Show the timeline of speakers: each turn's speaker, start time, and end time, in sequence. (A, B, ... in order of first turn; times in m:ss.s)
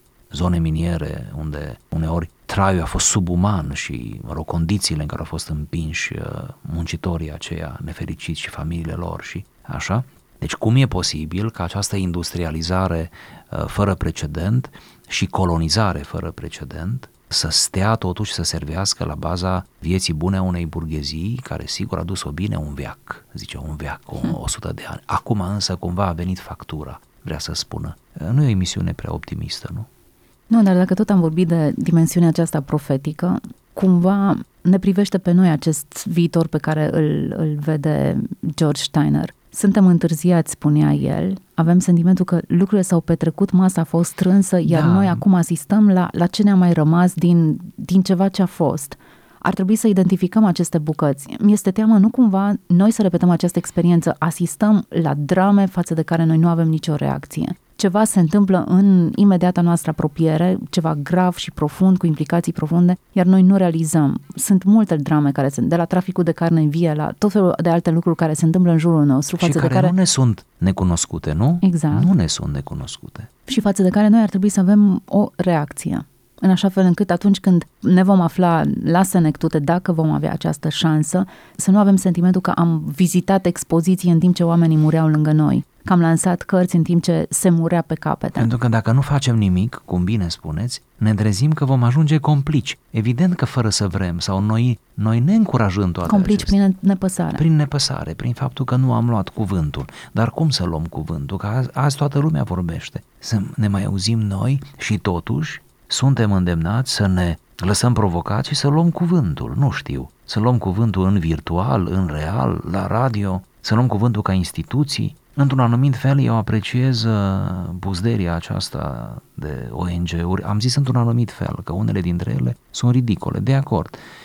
0:00.3-0:29.9 A
0:30.5-1:09.9 B
0:44.6-0:45.2 A
1:09.4-1:13.3 A
1:11.6-1:12.1 B
1:13.5-1:28.5 B
1:28.4-1:36.6 A
1:36.1-1:37.4 B
1:37.4-2:04.0 A